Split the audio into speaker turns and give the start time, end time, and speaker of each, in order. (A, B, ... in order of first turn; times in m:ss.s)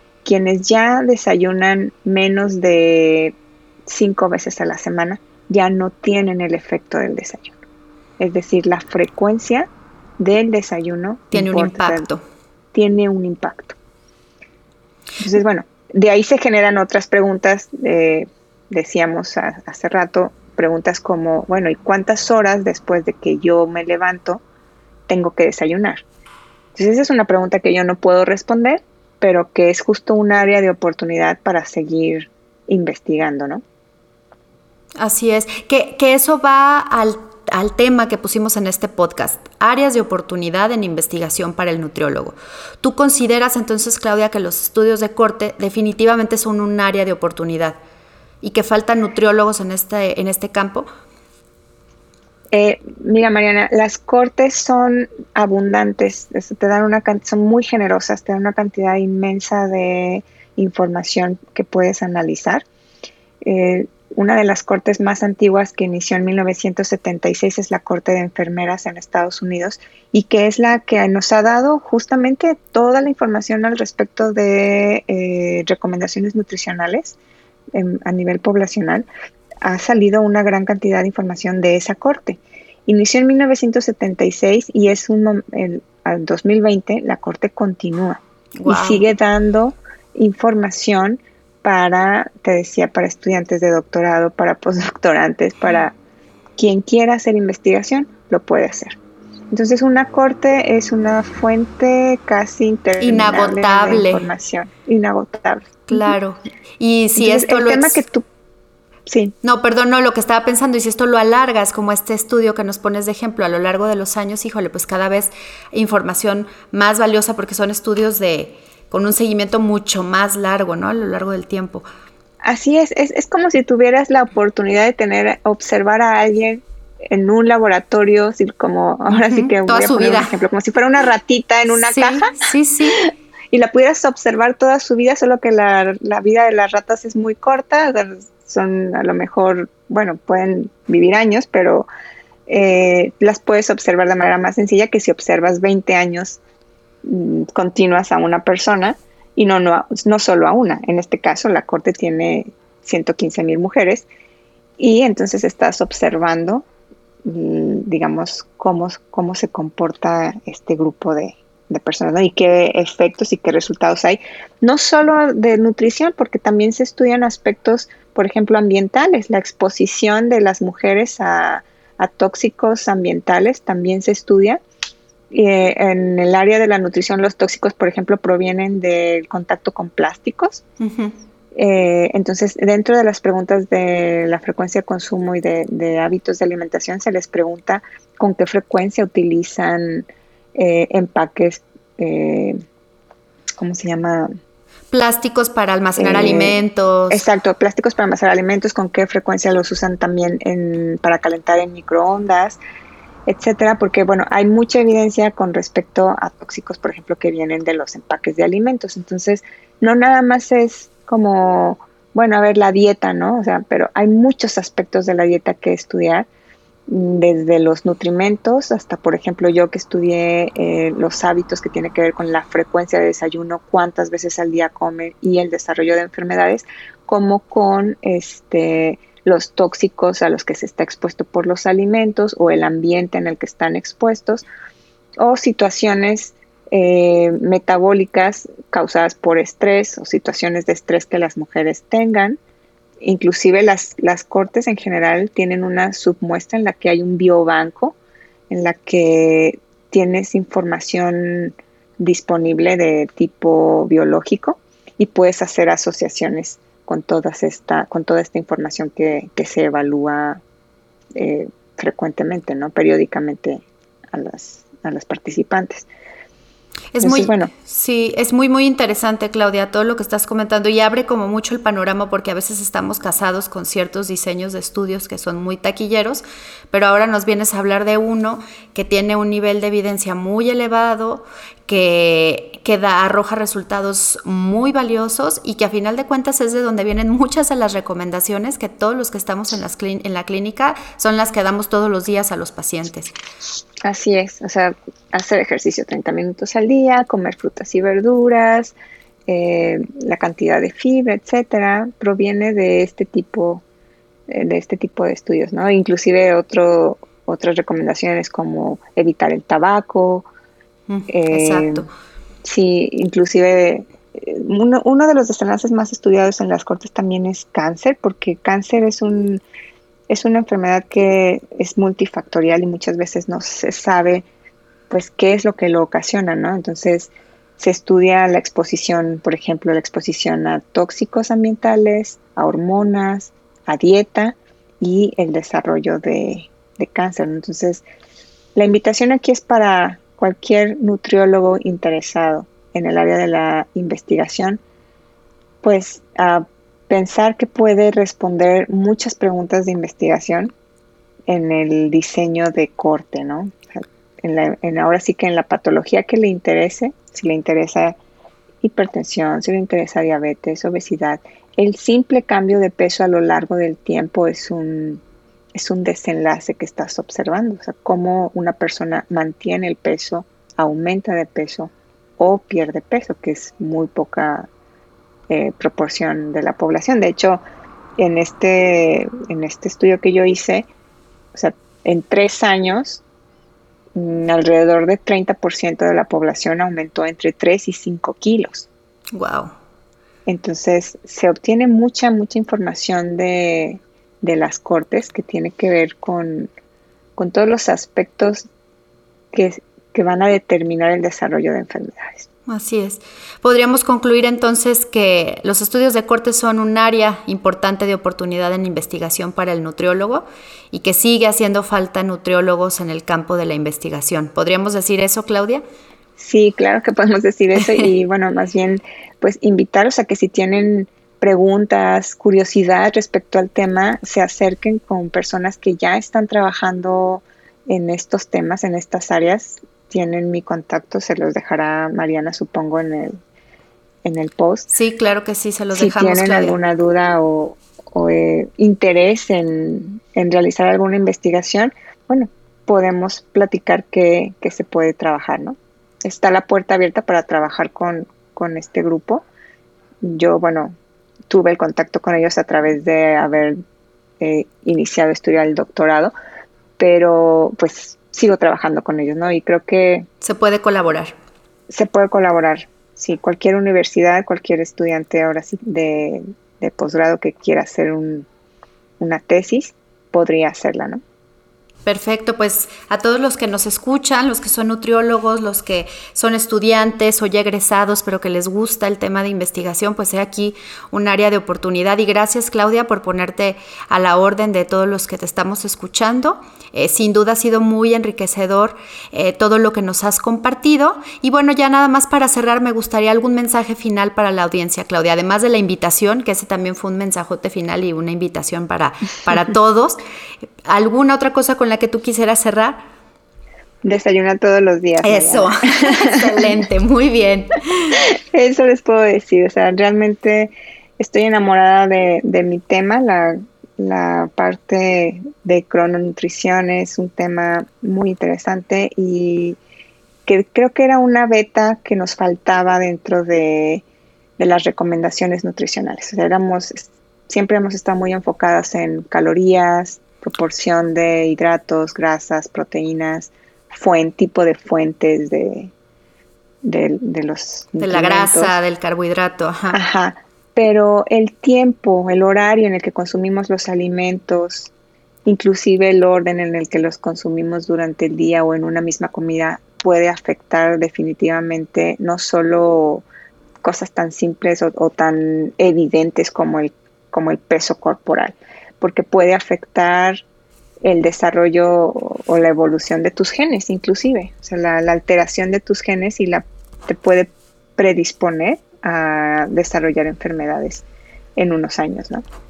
0:00.2-0:07.6 A
0:08.2-0:12.1 A
0:11.3-0:12.2 B
0:12.7-0:13.8 A
0:15.2-0:24.4 A
0:25.1-0:26.0 A
0:26.7-0:33.6 A
0:35.0-0:47.8 B
0:48.4-0:50.9 B
0:52.5-1:02.6 A
1:03.4-1:17.2 A
1:17.7-1:19.1 A
1:19.6-1:36.0 A
1:28.6-1:29.0 B
1:36.6-1:39.0 A
1:39.5-1:46.1 A
1:43.0-1:44.3 B
1:45.9-1:48.0 B
1:47.1-1:48.2 A
1:49.1-1:49.3 A
1:49.4-2:01.8 B
2:02.4-2:12.4 A
2:09.1-2:10.3 B
2:11.8-2:13.0 B
2:13.0-2:21.9 A
2:22.5-2:26.4 A
2:27.0-2:34.1 A
2:34.8-2:36.6 A
2:37.2-2:54.6 A
2:55.3-3:00.6 A
3:00.8-3:01.1 B
3:01.5-3:12.6 A
3:13.6-3:14.3 A
3:14.9-3:17.2 B
3:16.0-3:22.6 A
3:23.3-3:36.3 A
3:36.9-3:54.4 A
3:55.2-4:02.4 A
4:03.0-4:08.0 A
4:08.5-4:20.4 A
4:21.1-4:25.9 A
4:26.9-4:53.1 B
4:27.0-4:27.5 A
4:53.8-4:58.8 A
4:59.3-5:03.6 A
5:04.3-5:10.3 A
5:10.9-5:11.9 B
5:11.1-5:11.9 A
5:12.4-5:19.4 A
5:20.1-5:24.3 A
5:24.9-5:37.8 A
5:38.5-5:44.6 A
5:45.6-5:50.5 A
5:51.3-5:58.0 A
5:58.6-6:05.0 A
6:05.5-6:14.5 A
6:15.3-6:17.4 A
6:18.0-6:20.7 A
6:21.3-6:23.0 A
6:23.9-6:28.7 A
6:29.1-6:29.5 B
6:30.2-6:36.5 A
6:37.2-6:38.4 A
6:39.3-6:42.3 A
6:42.5-6:55.6 B
6:56.2-7:13.2 A
7:14.0-7:14.7 A
7:14.7-7:16.6 B
7:15.7-7:29.2 A
7:30.0-7:30.7 A
7:31.3-7:33.6 A
7:34.2-7:36.1 A
7:36.8-7:40.1 A
7:40.2-7:41.1 B
7:41.7-7:48.3 A
7:49.0-7:51.0 A
7:51.9-8:20.0 B
8:20.6-8:22.8 B
8:23.8-8:26.5 A
8:25.0-8:28.0 B
8:28.0-8:39.6 A
8:40.2-8:43.8 A
8:44.4-8:55.7 A
8:56.6-8:58.6 A
8:57.8-8:59.8 B
8:59.7-9:04.7 A
9:05.2-9:13.0 A
9:13.6-9:20.2 A
9:20.8-9:30.8 A
9:31.4-9:32.2 A